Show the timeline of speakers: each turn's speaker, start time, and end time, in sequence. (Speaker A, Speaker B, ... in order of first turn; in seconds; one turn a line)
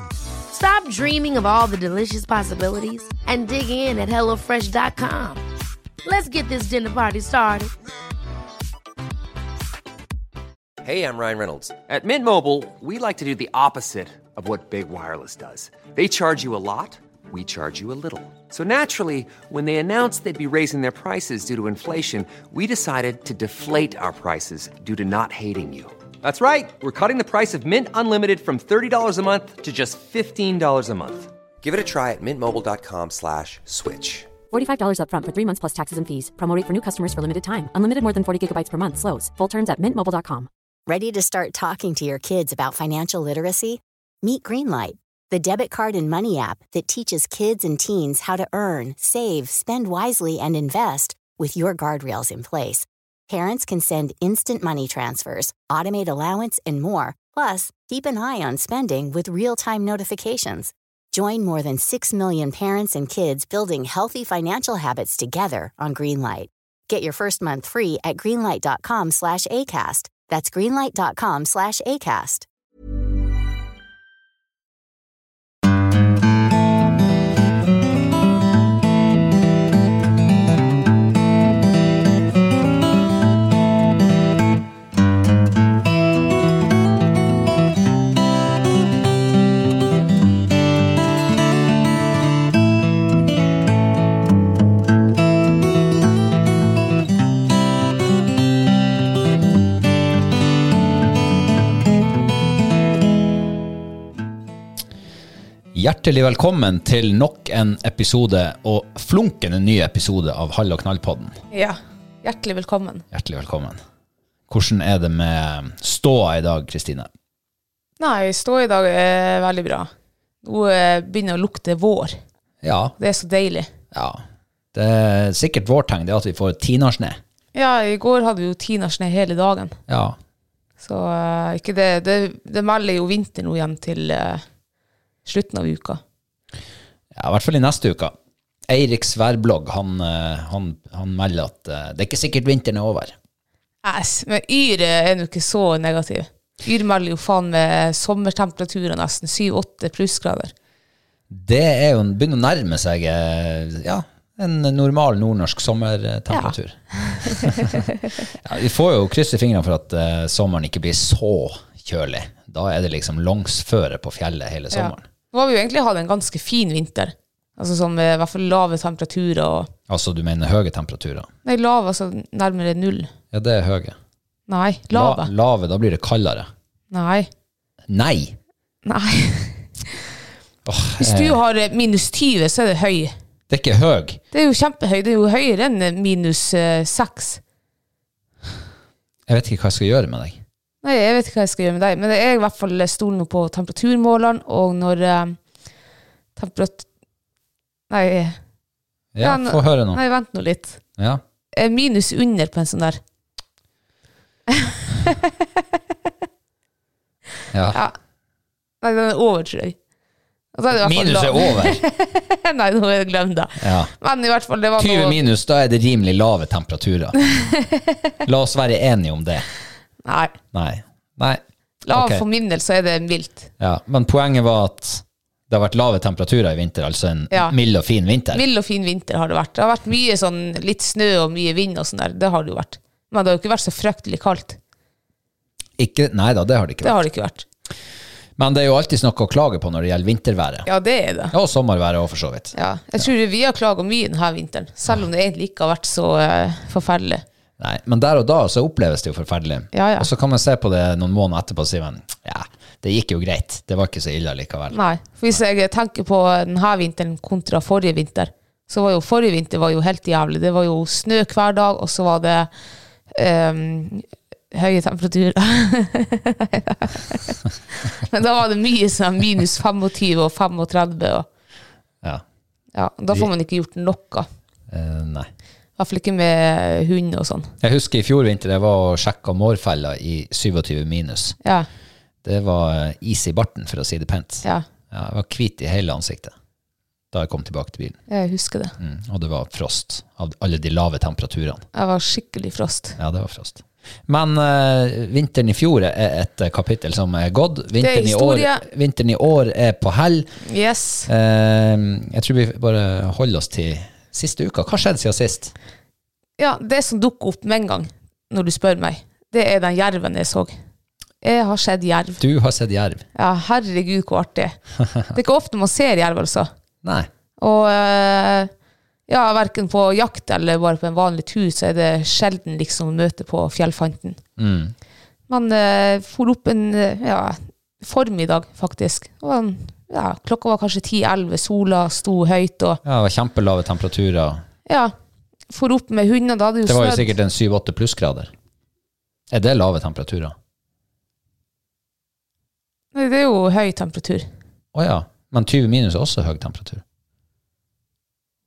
Speaker A: 0.5-5.4
Speaker A: 6.0-7.7
Speaker B: 10.8-34.3
Speaker C: 34.5-40.5
Speaker D: 40.9-72.5
Speaker E: 105.7-111.4
Speaker F: 111.5-113.0
Speaker E: 113.1-113.8
Speaker E: 114.5-117.1
Speaker F: 118.0-119.9
Speaker F: 120.4-122.2
Speaker E: 122.6-122.9
Speaker F: 123.0-123.7
Speaker E: 123.9-124.2
Speaker E: 124.7-127.2
Speaker F: 127.5-129.8
Speaker E: 129.9-130.2
Speaker F: 130.8-134.4
Speaker F: 135.2-136.0
Speaker E: 137.1-138.1
Speaker E: 138.7-143.1
Speaker F: 143.8-150.5
Speaker E: 151.3-157.8
Speaker F: 156.3-157.9
Speaker E: 158.4-165.0
Speaker F: 164.7-169.7
Speaker E: 169.9-171.3
Speaker F: 171.4-173.1
Speaker E: 173.3-174.0
Speaker F: 174.5-175.3
Speaker E: 174.9-176.5
Speaker F: 176.9-177.3
Speaker E: 177.9-178.4
Speaker F: 178.8-180.0
Speaker E: 180.6-181.4
Speaker F: 181.0-183.1
Speaker E: 183.5-184.2
Speaker F: 184.3-187.4
Speaker E: 189.3-190.4
Speaker F: 190.8-195.4
Speaker F: 196.3-196.9
Speaker F: 197.9-198.4
Speaker E: 199.1-200.0
Speaker F: 199.2-200.8
Speaker F: 201.5-203.0
Speaker F: 204.5-205.3
Speaker E: 207.5-207.8
Speaker F: 208.8-209.8
Speaker F: 210.5-215.2
Speaker E: 210.7-211.8
Speaker E: 213.6-213.9
Speaker E: 214.8-217.3
Speaker E: 218.2-219.4
Speaker F: 220.0-220.3
Speaker E: 220.5-222.2
Speaker F: 221.8-223.5
Speaker E: 223.6-228.4
Speaker F: 228.3-234.6
Speaker E: 235.8-237.0
Speaker F: 236.8-237.4
Speaker E: 238.4-240.7
Speaker F: 240.7-241.3
Speaker E: 241.3-243.1
Speaker F: 242.5-247.2
Speaker E: 247.6-255.4
Speaker F: 249.7-250.1
Speaker F: 254.7-262.5
Speaker F: 263.1-271.3
Speaker F: 272.7-274.3
Speaker E: 274.7-275.3
Speaker F: 275.8-277.5
Speaker E: 277.6-281.4
Speaker E: 282.2-286.3
Speaker E: 287.1-288.0
Speaker F: 288.1-288.7
Speaker E: 288.8-291.6
Speaker F: 291.7-293.0
Speaker E: 293.0-300.3
Speaker F: 297.8-298.6
Speaker F: 300.4-301.1
Speaker E: 301.1-305.5
Speaker F: 306.4-310.6
Speaker F: 311.2-312.2
Speaker E: 312.2-313.1
Speaker F: 313.1-314.6
Speaker F: 315.1-316.5
Speaker E: 316.8-317.1
Speaker F: 317.4-318.5
Speaker F: 319.1-324.2
Speaker E: 324.4-324.7
Speaker F: 325.3-332.8
Speaker E: 332.8-334.4
Speaker F: 334.7-334.9
Speaker F: 335.5-337.1
Speaker E: 336.6-338.3
Speaker E: 339.3-340.4
Speaker F: 342.9-344.3
Speaker E: 344.7-346.8